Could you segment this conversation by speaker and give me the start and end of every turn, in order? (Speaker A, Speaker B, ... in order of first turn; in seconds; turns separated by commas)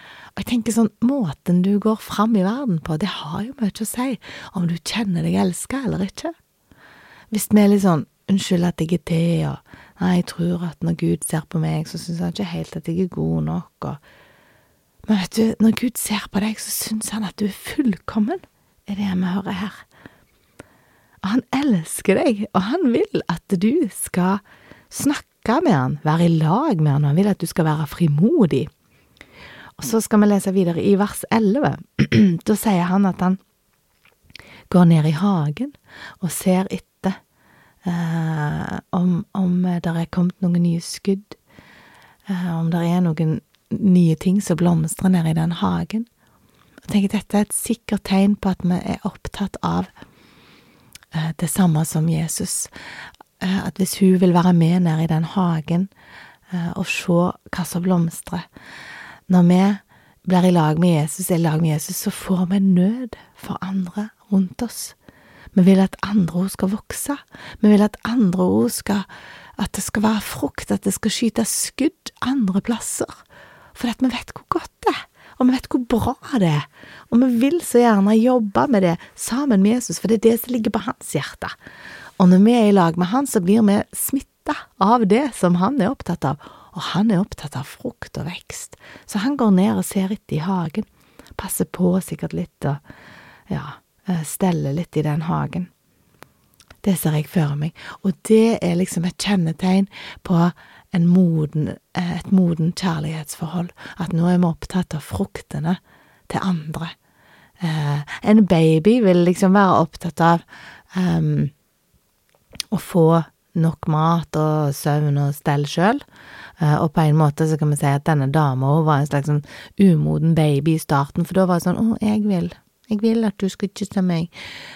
Speaker A: 0.3-6.3, Speaker A: 7.3-14.0, Speaker A: 15.1-19.8, Speaker A: 21.2-28.7, Speaker A: 29.8-33.4, Speaker A: 34.7-37.2, Speaker A: 37.8-41.4, Speaker A: 42.3-46.1, Speaker A: 46.9-49.9, Speaker A: 51.1-52.7, Speaker A: 53.4-55.9, Speaker A: 56.5-58.5, Speaker A: 59.3-65.0, Speaker A: 65.5-69.1, Speaker A: 69.6-73.2, Speaker A: 73.7-81.5, Speaker A: 82.2-90.9, Speaker A: 91.4-92.8, Speaker A: 93.5-95.7, Speaker A: 96.8-106.9, Speaker A: 107.6-110.4, Speaker A: 110.9-111.5, Speaker A: 112.7-116.0, Speaker A: 116.6-124.3